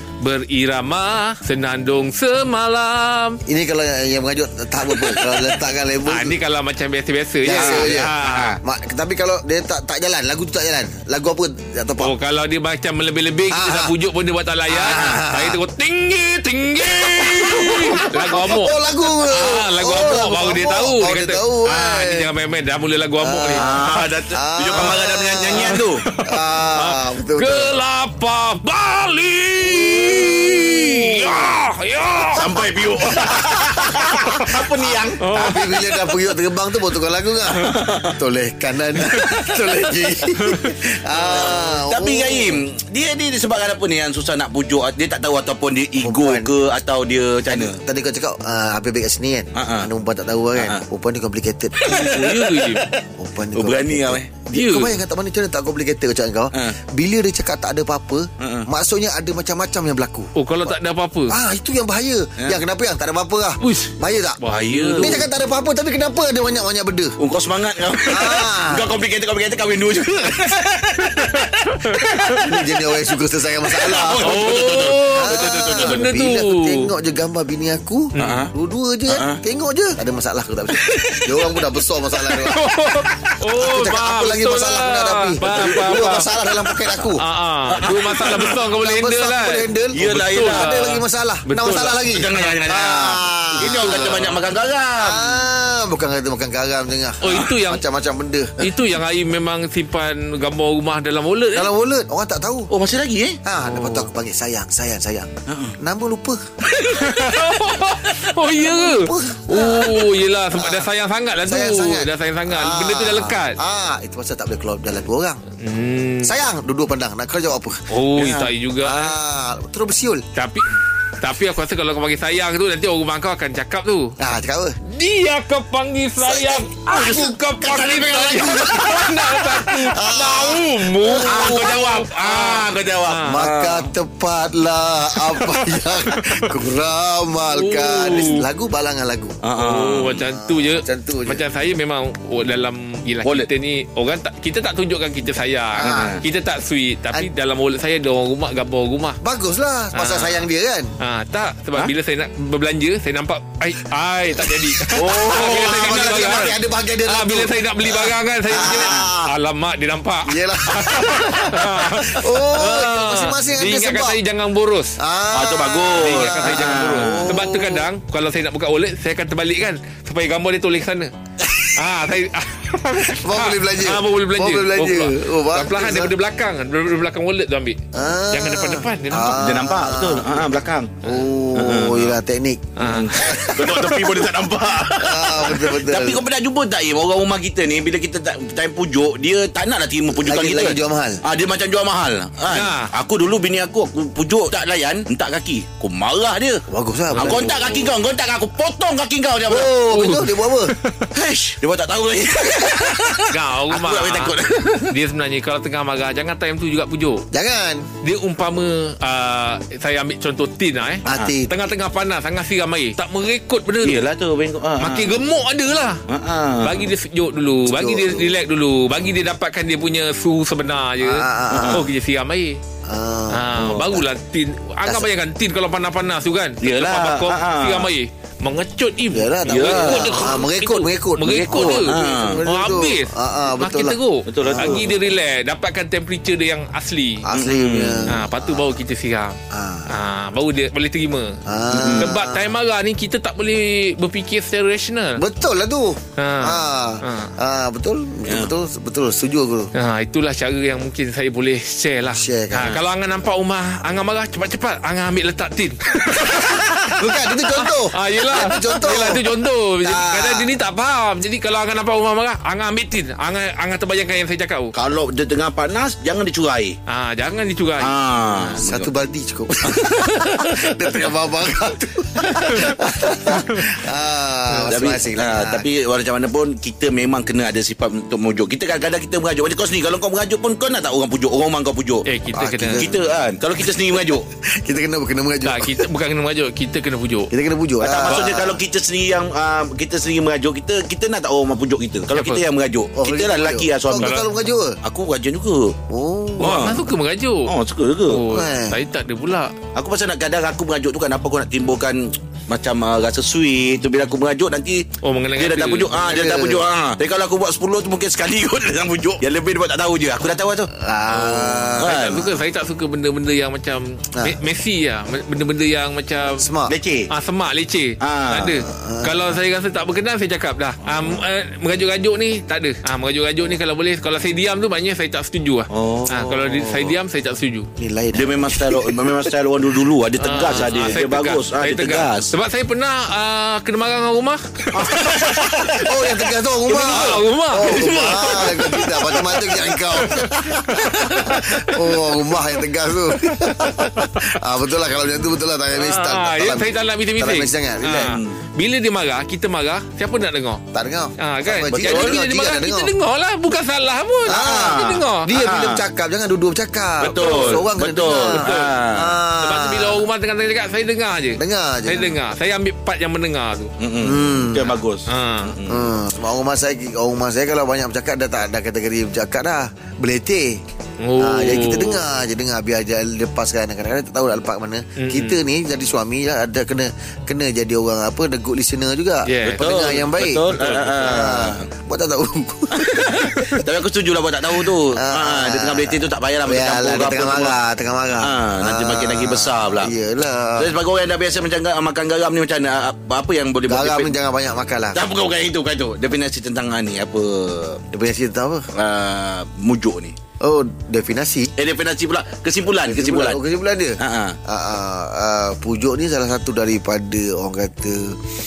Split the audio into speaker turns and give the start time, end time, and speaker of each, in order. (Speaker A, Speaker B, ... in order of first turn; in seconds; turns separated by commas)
Speaker A: 0.2-3.4, Speaker B: 3.5-6.4, Speaker A: 4.9-5.5, Speaker A: 6.0-8.6, Speaker B: 7.4-12.1, Speaker C: 7.5-8.6, Speaker A: 12.0-24.0, Speaker B: 13.5-13.9, Speaker B: 14.7-15.6, Speaker C: 14.8-15.2, Speaker B: 16.8-22.3, Speaker B: 23.2-27.8, Speaker C: 23.6-26.0, Speaker A: 25.6-32.5, Speaker B: 29.6-31.6, Speaker C: 32.4-35.3, Speaker A: 33.1-33.4, Speaker B: 33.1-42.6, Speaker A: 34.1-34.6, Speaker A: 35.2-36.2, Speaker C: 37.7-38.1, Speaker A: 39.0-40.8, Speaker C: 41.1-47.8, Speaker B: 46.0-46.5, Speaker B: 47.5-52.2, Speaker C: 49.5-49.9, Speaker C: 50.6-50.8, Speaker C: 51.8-52.9, Speaker A: 51.9-52.9, Speaker B: 53.0-60.8, Speaker C: 53.5-54.3, Speaker A: 54.5-55.0, Speaker C: 58.4-58.7, Speaker A: 60.4-61.4, Speaker B: 61.3-64.4, Speaker A: 63.6-65.3, Speaker C: 64.5-65.2, Speaker B: 65.0-67.2, Speaker C: 67.2-72.5, Speaker B: 68.1-69.0, Speaker A: 71.3-72.4, Speaker B: 72.3-82.6, Speaker C: 73.8-76.0, Speaker A: 74.2-76.9, Speaker A: 78.1-78.4, Speaker C: 78.2-78.5, Speaker C: 79.1-79.4, Speaker C: 80.8-81.6, Speaker A: 82.4-86.3, Speaker B: 83.5-87.2, Speaker C: 85.5-86.2, Speaker C: 86.8-87.1, Speaker A: 87.2-92.6, Speaker C: 87.7-88.6, Speaker B: 87.9-94.4, Speaker C: 89.9-90.9, Speaker C: 92.1-95.4, Speaker A: 93.6-94.3, Speaker B: 95.0-98.5, Speaker A: 97.2-97.8, Speaker A: 98.6-101.7, Speaker B: 101.5-102.7, Speaker C: 102.7-103.4, Speaker B: 103.4-106.5, Speaker A: 103.6-104.1, Speaker C: 105.5-105.8, Speaker C: 106.8-107.2, Speaker A: 106.8-113.6, Speaker B: 108.4-110.9, Speaker B: 111.4-115.4, Speaker A: 115.6-116.4, Speaker B: 116.2-120.2, Speaker A: 117.9-119.1, Speaker C: 118.2-118.5, Speaker A: 120.3-120.7, Speaker A: 121.2-124.1, Speaker B: 124.2-124.8, Speaker A: 124.9-133.4, Speaker B: 126.2-132.0, Speaker C: 127.8-128.6, Speaker C: 131.2-133.9, Speaker B: 133.2-139.4, Speaker A: 135.3-136.6, Speaker A: 137.5-138.4, Speaker C: 139.4-140.3, Speaker A: 139.6-149.2, Speaker B: 140.2-141.4, Speaker B: 145.8-146.2, Speaker C: 145.8-146.2, Speaker B: 149.2-150.9, Speaker A: 149.9-150.5, Speaker A: 151.0-156.5, Speaker B: 154.5-159.3, Speaker C: 154.9-156.5, Speaker A: 157.1-164.9, Speaker B: 160.2-164.2, Speaker B: 165.0-167.9, Speaker C: 165.3-167.4, Speaker A: 165.9-171.1, Speaker B: 171.4-171.7, Speaker A: 171.8-179.4, Speaker B: 173.0-176.1, Speaker B: 177.9-180.5, Speaker C: 179.4-181.0, Speaker B: 181.0-184.3, Speaker C: 181.6-182.2, Speaker A: 182.8-183.1, Speaker C: 182.8-196.6, Speaker B: 184.9-186.2, Speaker B: 190.2-191.2, Speaker A: 192.5-192.9, Speaker B: 196.7-197.9, Speaker A: 197.2-197.5, Speaker C: 197.2-199.8, Speaker B: 199.5-200.8, Speaker A: 199.9-201.1, Speaker C: 201.1-204.9, Speaker A: 203.2-204.4, Speaker A: 204.9-207.2, Speaker B: 207.3-207.9, Speaker A: 208.0-214.0, Speaker B: 211.1-211.6, Speaker C: 211.1-211.3, Speaker C: 213.8-215.2, Speaker A: 214.8-216.0, Speaker C: 216.1-216.8, Speaker A: 216.6-222.6, Speaker B: 217.7-218.4, Speaker B: 221.0-221.9, Speaker C: 221.5-221.9, Speaker B: 222.9-224.1, Speaker A: 223.3-237.2, Speaker C: 223.6-223.9, Speaker B: 224.8-225.1, Speaker C: 226.6-227.9, Speaker B: 229.1-235.0, Speaker C: 229.5-230.4, Speaker C: 231.3-232.4, Speaker C: 234.3-234.9, Speaker B: 237.2-238.8, Speaker C: 237.3-238.2, Speaker A: 238.1-241.4, Speaker B: 239.5-239.9, Speaker B: 241.4-242.5, Speaker C: 241.7-242.1, Speaker A: 242.0-245.2, Speaker B: 245.2-249.7, Speaker A: 246.2-247.3, Speaker C: 248.2-248.5, Speaker A: 249.8-264.7, Speaker B: 252.1-252.8, Speaker B: 256.1-259.2, Speaker B: 259.8-260.5, Speaker C: 264.7-266.8, Speaker A: 266.9-267.9, Speaker C: 267.8-268.9, Speaker B: 268.6-275.7, Speaker C: 269.8-271.1, Speaker A: 272.4-272.8, Speaker A: 274.5-274.8, Speaker C: 274.7-284.3, Speaker A: 282.0-282.9, Speaker B: 282.3-283.1, Speaker B: 283.7-285.9, Speaker A: 285.4-287.3, Speaker B: 287.3-288.6, Speaker C: 287.8-294.2, Speaker A: 288.0-288.3, Speaker A: 292.1-292.4, Speaker B: 292.9-294.8, Speaker A: 293.9-294.2, Speaker C: 294.8-295.8, Speaker B: 295.9-296.7, Speaker A: 296.4-297.5, Speaker C: 296.4-296.9, Speaker C: 297.5-298.2, Speaker A: 298.1-299.5, Speaker B: 298.3-298.8, Speaker C: 299.8-304.9, Speaker A: 305.0-306.1, Speaker C: 305.4-312.3, Speaker B: 305.9-306.6, Speaker B: 310.7-312.3, Speaker A: 311.9-316.5, Speaker B: 316.4-316.7, Speaker C: 316.7-317.1, Speaker A: 317.1-327.7, Speaker C: 318.0-318.5, Speaker B: 318.6-319.3, Speaker C: 325.7-326.9, Speaker B: 327.8-329.4, Speaker C: 328.1-332.3, Speaker A: 330.2-335.9, Speaker C: 334.7-335.8, Speaker B: 334.9-348.0, Speaker A: 336.7-342.1, Speaker C: 336.9-337.2, Speaker C: 337.8-338.4, Speaker A: 343.2-344.4, Speaker A: 345.7-350.6, Speaker C: 347.8-348.4, Speaker B: 350.7-352.9, Speaker A: 351.2-355.3, Speaker C: 351.8-352.2, Speaker B: 354.2-360.1, Speaker C: 354.3-355.9, Speaker C: 357.0-359.2, Speaker A: 357.1-357.6, Speaker A: 358.3-358.7, Speaker A: 359.4-363.7, Speaker B: 361.4-362.2, Speaker C: 363.8-365.9, Speaker B: 364.0-364.8, Speaker A: 365.1-365.5, Speaker B: 365.6-370.6, Speaker A: 371.0-372.0, Speaker B: 371.2-383.6, Speaker A: 375.0-375.4, Speaker A: 379.2-379.7, Speaker C: 379.5-381.6, Speaker A: 380.5-381.1, Speaker C: 382.8-387.6, Speaker B: 384.9-390.7, Speaker C: 388.2-389.9, Speaker C: 390.6-394.1, Speaker B: 393.7-395.0, Speaker C: 394.9-397.8, Speaker B: 397.9-398.7, Speaker C: 398.7-400.1, Speaker B: 400.4-401.5, Speaker C: 401.6-403.4, Speaker B: 402.9-408.2, Speaker C: 404.0-404.4